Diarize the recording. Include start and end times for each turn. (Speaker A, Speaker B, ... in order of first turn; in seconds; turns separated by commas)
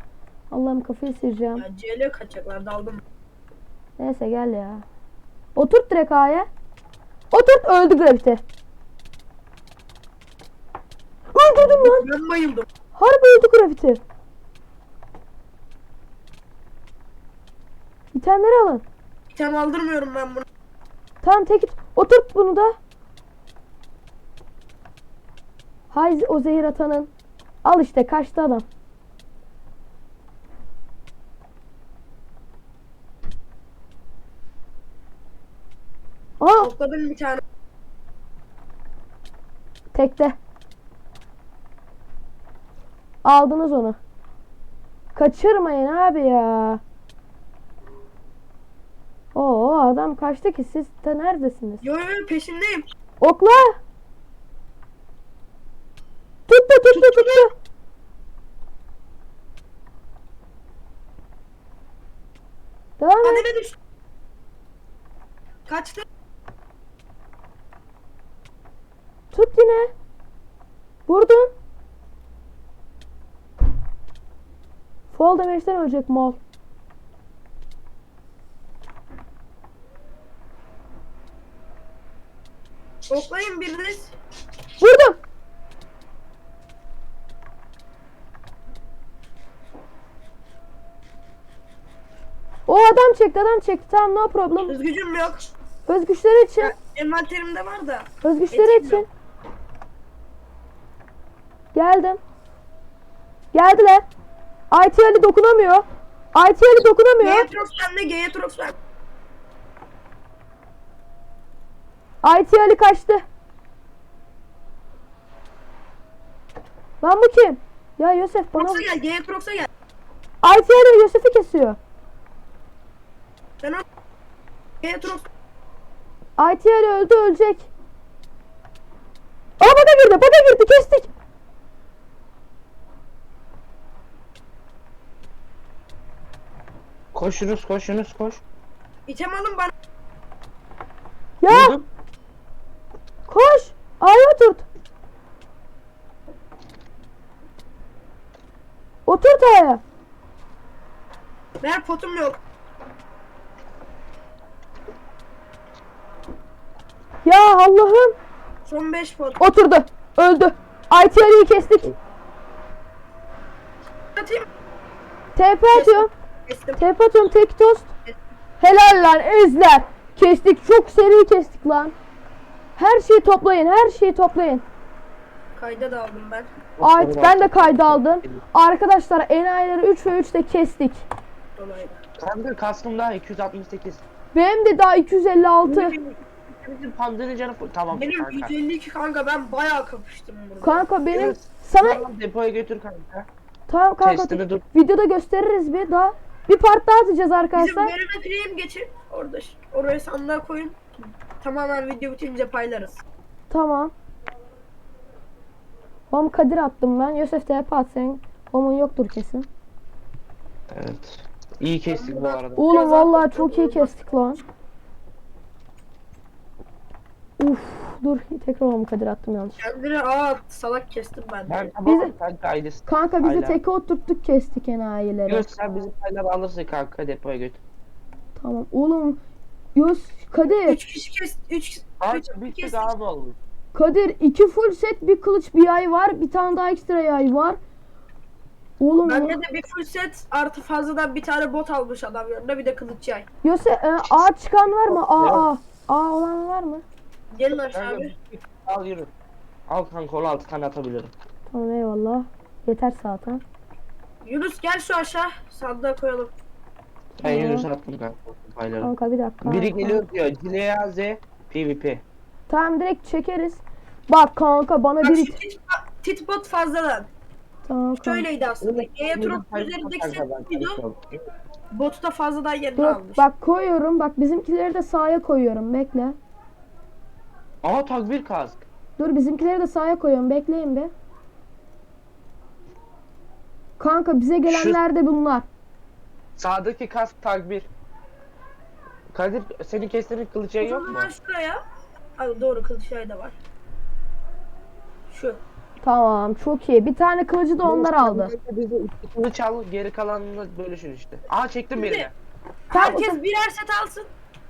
Speaker A: 0.5-1.6, Speaker B: 1.6-3.0, Speaker A: 4.0-4.8, Speaker A: 5.5-6.5, Speaker A: 7.3-8.4, Speaker A: 11.3-12.1, Speaker B: 11.6-12.7, Speaker A: 12.9-14.0, Speaker A: 18.1-18.8, Speaker B: 19.3-20.5, Speaker A: 21.2-22.8, Speaker A: 25.9-27.1, Speaker A: 27.6-28.7, Speaker A: 36.4-36.7, Speaker B: 36.6-37.4, Speaker A: 39.9-40.4, Speaker A: 43.2-44.0, Speaker A: 45.1-46.8, Speaker A: 49.3-51.8, Speaker B: 51.8-52.9, Speaker A: 53.2-53.8, Speaker A: 56.5-57.5, Speaker B: 56.9-57.5, Speaker A: 63.0-63.5, Speaker B: 63.2-63.8, Speaker B: 65.7-66.0, Speaker A: 69.3-69.9, Speaker A: 71.1-71.5, Speaker A: 75.1-76.4, Speaker B: 83.1-84.2, Speaker A: 84.8-85.2, Speaker A: 92.7-94.8, Speaker B: 94.7-95.5, Speaker A: 95.9-96.7, Speaker B: 96.6-99.1, Speaker A: 98.2-99.1, Speaker A: 101.7-102.2, Speaker A: 103.5-104.1, Speaker A: 104.7-107.5, Speaker B: 107.2-108.8, Speaker A: 112.2-113.2, Speaker A: 117.0-118.9, Speaker B: 118.6-119.7, Speaker A: 120.4-121.8, Speaker B: 124.8-125.3, Speaker A: 126.4-127.7, Speaker A: 129.6-131.1, Speaker C: 137.1-138.4, Speaker B: 139.1-139.7, Speaker A: 141.4-141.8, Speaker C: 141.5-141.9, Speaker A: 143.3-144.7, Speaker A: 149.1-149.8, Speaker B: 151.6-152.4, Speaker A: 157.2-158.2, Speaker B: 158.7-159.4, Speaker A: 159.4-161.9, Speaker B: 164.2-164.5, Speaker A: 165.4-166.1, Speaker B: 165.7-166.8, Speaker A: 166.8-167.9, Speaker A: 168.6-171.9, Speaker A: 172.8-174.7, Speaker B: 175.6-176.5, Speaker C: 176.8-178.4, Speaker A: 176.8-181.1, Speaker B: 181.6-182.0, Speaker C: 182.2-184.0, Speaker A: 184.3-186.0, Speaker C: 185.7-188.5, Speaker B: 187.9-191.3, Speaker A: 190.6-192.0, Speaker C: 191.1-193.3, Speaker A: 193.7-197.9, Speaker C: 194.0-194.7, Speaker B: 197.6-200.8, Speaker B: 201.4-203.0, Speaker A: 203.5-203.9, Speaker A: 206.1-209.5, Speaker C: 210.7-212.7, Speaker B: 211.9-214.1, Speaker A: 212.6-214.4, Speaker A: 217.4-219.6, Speaker B: 219.6-221.7, Speaker C: 221.5-223.6, Speaker A: 221.8-222.1, Speaker A: 222.9-225.5, Speaker C: 225.3-227.6, Speaker A: 228.4-229.2, Speaker A: 229.8-230.8, Speaker B: 230.5-232.9, Speaker C: 232.0-233.4, Speaker A: 233.7-237.6, Speaker A: 238.8-239.4, Speaker B: 239.0-243.3, Speaker A: 243.4-246.8, Speaker C: 244.8-245.5, Speaker B: 247.3-248.1, Speaker C: 247.7-249.1, Speaker C: 249.7-251.1, Speaker A: 251.5-253.4, Speaker B: 254.2-256.3, Speaker A: 257.2-257.7, Speaker C: 257.2-262.0, Speaker A: 258.8-260.0, Speaker A: 262.5-265.4, Speaker B: 265.0-267.1, Speaker A: 267.6-268.3, Speaker B: 268.0-270.8, Speaker C: 268.6-271.3, Speaker B: 271.7-273.2, Speaker A: 272.8-276.2, Speaker C: 277.6-278.6, Speaker A: 279.0-280.9, Speaker A: 283.8-285.5, Speaker C: 284.5-284.8, Speaker C: 286.4-287.7, Speaker C: 289.1-291.1, Speaker B: 290.6-291.6, Speaker B: 292.2-293.4, Speaker B: 295.1-295.4, Speaker A: 295.8-298.3, Speaker C: 297.6-302.1, Speaker B: 301.8-302.1, Speaker B: 302.7-304.1, Speaker A: 302.7-303.2